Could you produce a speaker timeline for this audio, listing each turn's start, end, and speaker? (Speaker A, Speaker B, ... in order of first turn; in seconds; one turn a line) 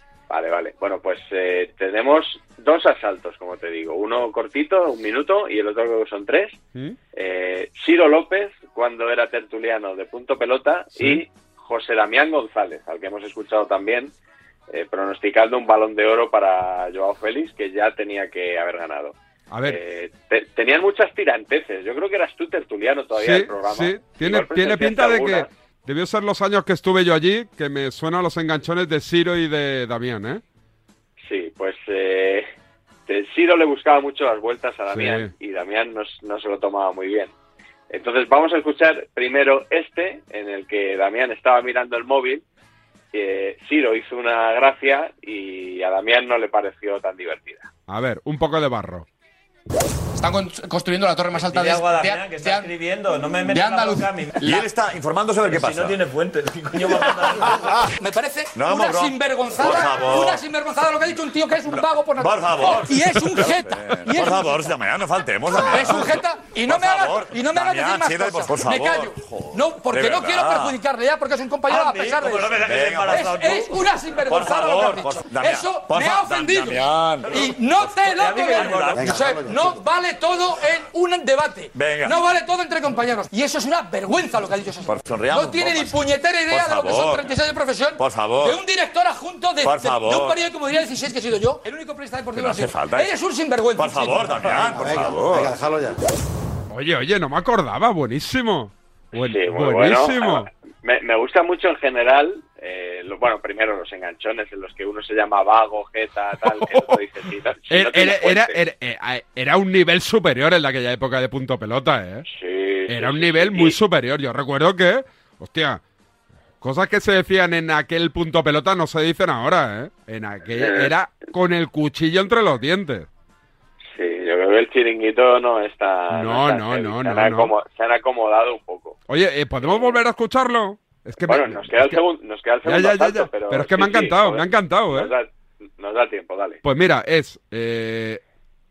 Speaker A: 0.3-6.6
Speaker A: 7.1-14.1
Speaker B: 10.9-11.2
Speaker A: 14.7-19.1
Speaker B: 19.5-19.8
Speaker A: 19.6-25.5
Speaker B: 23.1-30.4
Speaker A: 31.2-32.5
Speaker A: 33.1-37.3
Speaker B: 34.9-35.3
Speaker A: 37.9-42.4
Speaker A: 43.1-47.7
Speaker B: 47.9-49.0
Speaker C: 50.6-52.6
Speaker D: 51.3-54.5
Speaker C: 53.5-54.6
Speaker E: 54.4-56.0
Speaker D: 55.4-57.7
Speaker C: 57.3-64.7
Speaker E: 58.5-60.4
Speaker E: 61.7-70.8
Speaker C: 65.5-94.8
Speaker D: 71.8-72.4
Speaker E: 72.3-77.6
Speaker D: 78.1-79.2
Speaker E: 78.5-79.3
Speaker E: 81.7-82.1
Speaker E: 84.8-85.9
Speaker E: 86.5-87.2
Speaker E: 88.0-88.6
Speaker E: 89.6-90.3
Speaker E: 92.3-93.1
Speaker E: 93.8-95.5
Speaker B: 96.7-100.5
Speaker A: 99.3-108.6
Speaker B: 106.4-106.9
Speaker B: 107.7-112.2
Speaker A: 112.3-113.8
Speaker B: 112.9-115.8
Speaker B: 116.6-123.1
Speaker A: 120.6-120.9
Speaker A: 123.9-129.0
Speaker B: 126.1-127.5
Speaker B: 129.1-132.0
Speaker A: 129.6-130.0
Speaker A: 131.2-136.6
Speaker B: 132.6-135.1
Speaker B: 136.6-138.2